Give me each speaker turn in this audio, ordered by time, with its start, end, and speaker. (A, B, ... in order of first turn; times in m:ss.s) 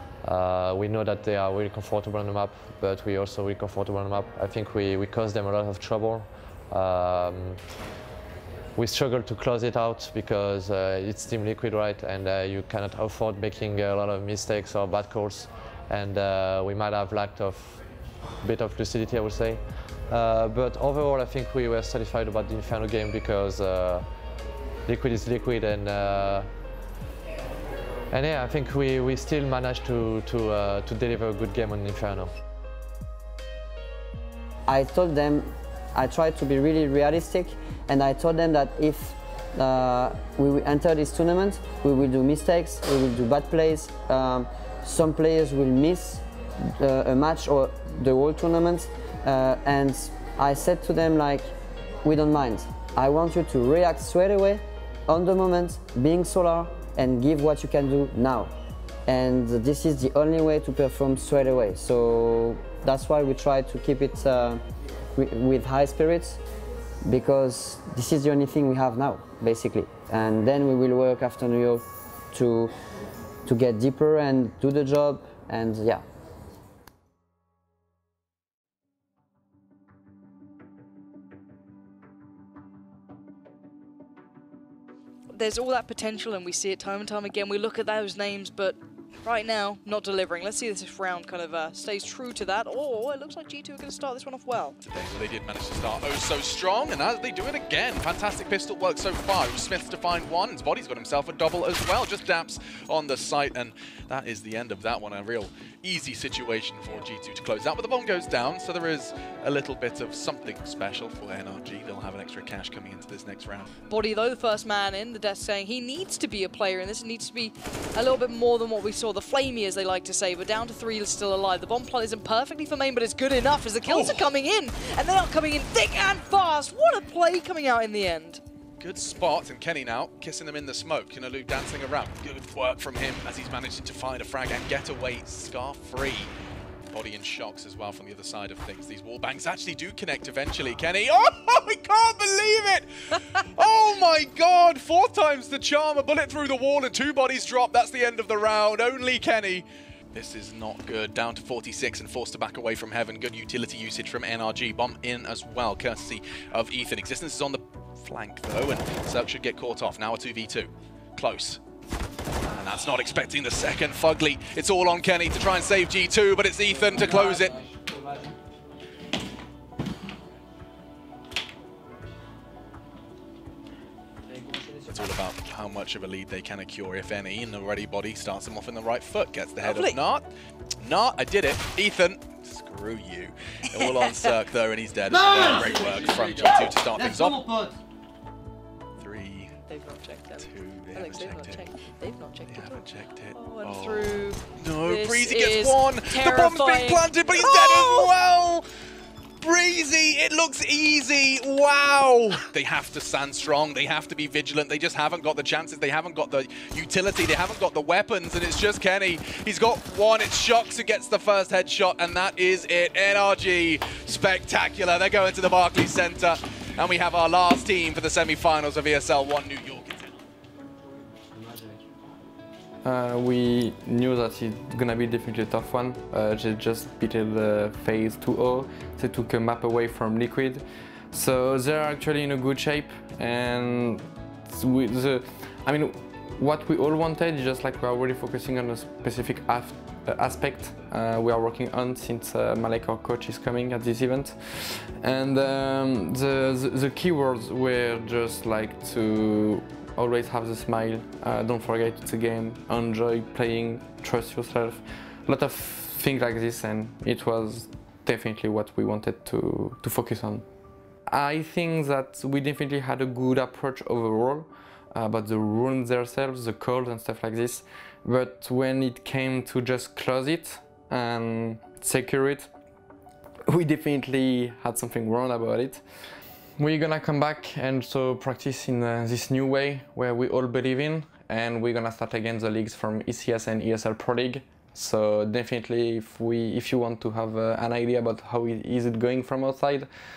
0:00.2-0:07.6 A
0:08.8-0:17.9 A
0:18.4-0:24.1 A
0:24.9-0:26.5 A
0:28.1-0:32.3 A
0:34.7-0:46.2 B
0:46.8-0:51.5 B
0:52.0-0:58.5 B
0:59.1-1:04.6 B
1:05.2-1:06.4 B
1:07.1-1:12.8 B
1:13.4-1:16.0 B
1:25.3-1:34.8 C
1:34.8-1:53.7 D
1:53.9-2:08.4 C
2:03.9-2:04.3 D
2:08.8-2:16.3 D
2:16.9-2:41.6 D
2:42.5-2:47.6 D
2:54.9-3:00.3 D
2:59.6-3:00.0 C
3:00.8-3:07.5 D
3:03.7-3:04.3 C
3:09.0-3:09.6 D
3:09.7-3:18.1 C
3:10.4-3:11.8 D
3:12.5-3:18.6 D
3:19.4-3:40.2 D
3:42.8-4:20.4 E
4:21.1-4:32.5 E
4:33.5-4:35.8 E
4:36.6-4:49.9 E